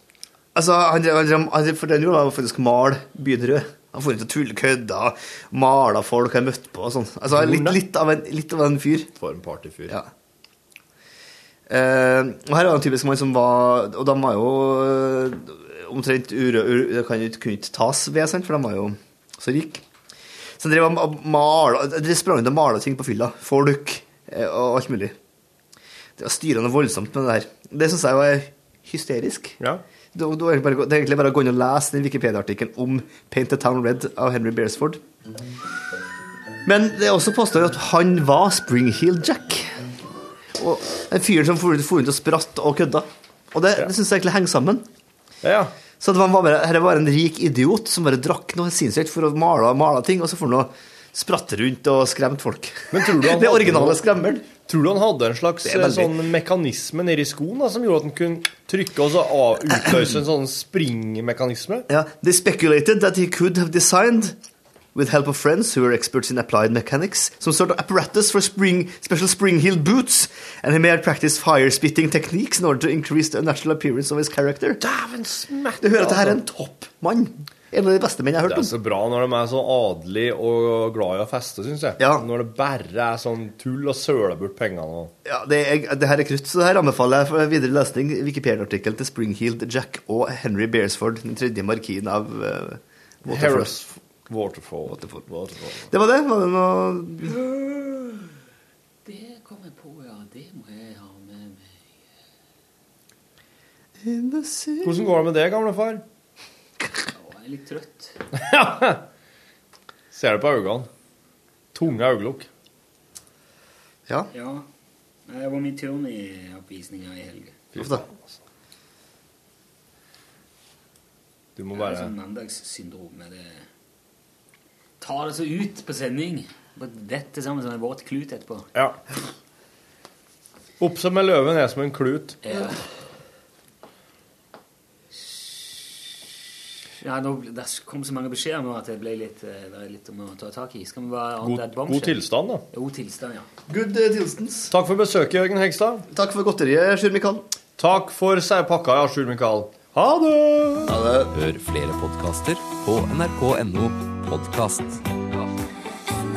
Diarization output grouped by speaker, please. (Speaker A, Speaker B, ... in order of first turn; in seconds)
Speaker A: 0.5-9.1, 11.7-19.8, 20.6-25.1, 26.2-29.6, 30.1-35.0, 36.6-39.8, 40.6-44.9, 46.0-54.6, 55.6-56.1, 61.9-64.3, 64.9-74.8, 75.8-78.7, 82.0-82.3, 85.2-93.7, 94.9-95.2, 95.9-97.4, 104.0-105.1, 117.7-118.0, 143.7-144.7, 146.1-147.5, 150.9-151.3
Speaker B: 7.3-7.8, 9.2-9.9, 45.4-45.7, 52.9-54.0, 54.6-61.9, 74.8-76.4, 78.4-85.1, 93.3-95.9, 104.8-106.0, 108.3-109.0, 110.1-110.9, 111.7-112.5, 117.7-118.2, 121.5-122.1, 130.8-132.4, 141.4-142.6, 144.7-146.1, 147.8-150.9
Speaker C: 99.0-101.7, 107.1-108.2, 114.3-114.7, 115.3-117.6, 121.7-123.7, 125.0-128.7, 132.4-132.8, 137.0-143.5
Speaker D: 151.3-155.0